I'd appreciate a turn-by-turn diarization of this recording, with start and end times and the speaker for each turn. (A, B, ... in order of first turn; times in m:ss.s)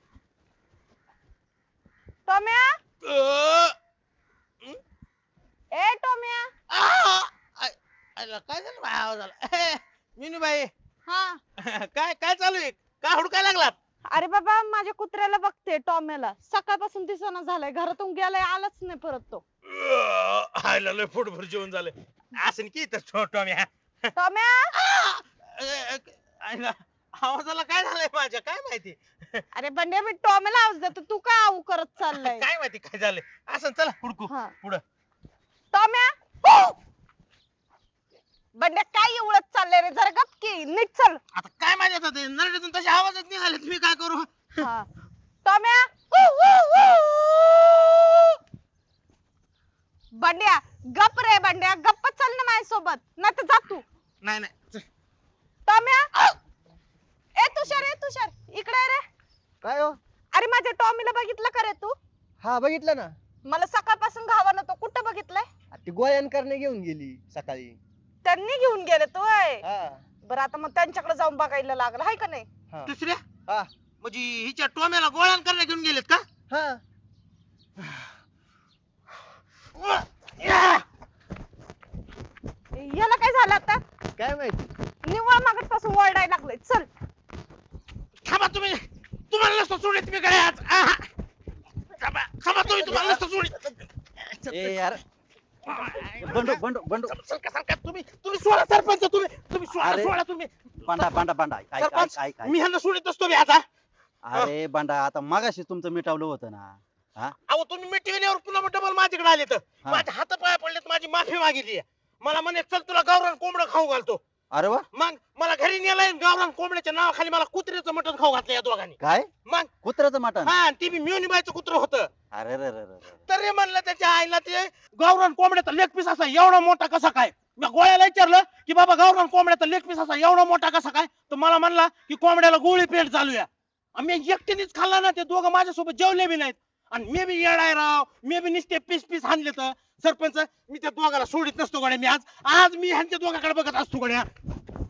0:02.3-0:02.8 A
0:03.0-0:03.8 B
0:05.7-0:06.5 A
0:06.7-0:10.7 B
0:11.1-0:11.4 A
0:11.6-0:13.8 B
0:14.1-0:19.4 A
0:19.6-0:24.1 B
0:24.2-0:24.7 A
0:24.7-0:29.4 B
0:29.6-0:32.5 A
0:32.1-0:34.8 B
0:35.7-0:36.7 A
0:38.6-0:41.2 A
0:41.4-0:44.6 B
0:44.6-0:44.9 A
0:45.4-0:48.4 A
0:50.2-0:53.8 A
0:54.2-0:54.8 B
0:55.7-0:56.1 A
0:57.4-0:59.0 A
0:59.6-1:00.0 C
1:00.3-1:02.0 A
1:02.4-1:03.1 C
1:03.5-1:05.5 A
1:05.7-1:07.8 C
1:08.2-1:09.6 A
1:09.6-1:10.0 C
1:10.3-1:12.5 A
1:12.9-1:13.2 B
1:14.0-1:16.2 B
1:16.5-1:16.8 C
1:19.8-1:20.8 B
1:22.8-1:23.8 A
1:24.2-1:24.7 C
1:25.0-1:26.9 A
1:28.2-1:31.1 B
1:32.0-1:34.8 B
1:34.5-1:35.0 D
1:35.7-1:41.1 B
1:36.2-1:37.2 D
1:39.7-1:40.1 D
1:40.8-1:42.6 D
1:41.8-1:43.6 B
1:44.2-1:47.4 D
1:47.5-1:54.2 B
1:54.5-1:54.8 D
1:54.9-1:59.7 B
1:59.0-1:59.3 D
1:59.8-2:00.5 D
2:00.4-2:02.1 B
2:02.3-2:03.2 D
2:03.3-2:24.3 B